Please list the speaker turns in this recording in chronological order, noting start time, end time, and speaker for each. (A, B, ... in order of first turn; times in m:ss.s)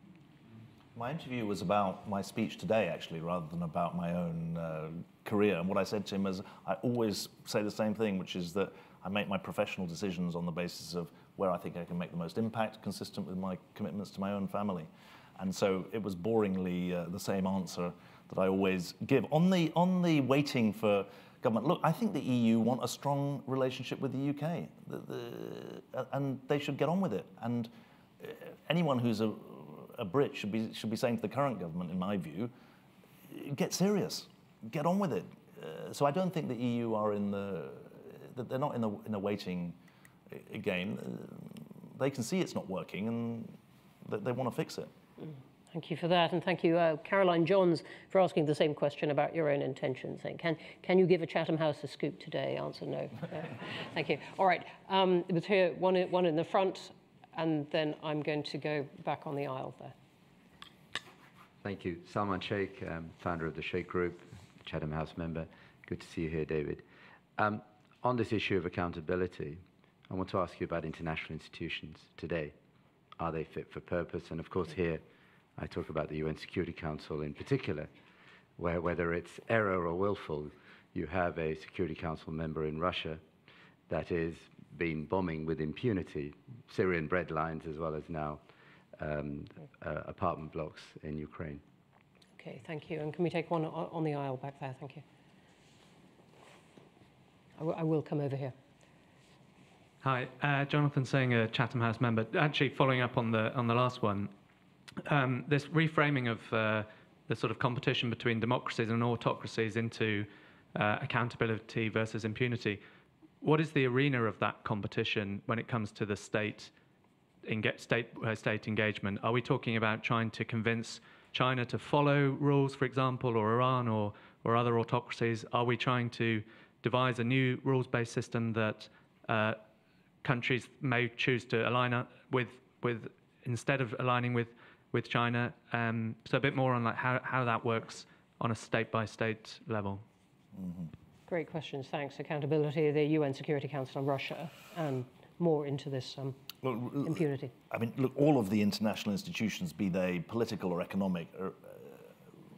0:01.0-0:32.5 A
0:33.3-0:39.8 A
0:40.3-0:44.9 A
0:45.7-1:00.0 B
1:01.6-1:06.8 C
1:07.4-1:12.6 C
1:13.2-1:15.0 C
1:15.6-1:17.9 C
1:18.6-1:23.2 C
1:23.9-1:28.4 C
1:29.0-1:31.6 C
1:32.4-1:35.0 B
1:37.6-1:38.6 B
1:40.0-1:44.3 D
1:45.0-1:52.8 D
1:53.4-1:56.7 D
1:57.5-2:09.6 D
2:10.2-2:20.0 D
2:20.6-2:20.9 A
2:21.3-2:26.4 B
2:26.6-2:32.1 A
2:27.0-2:27.5 B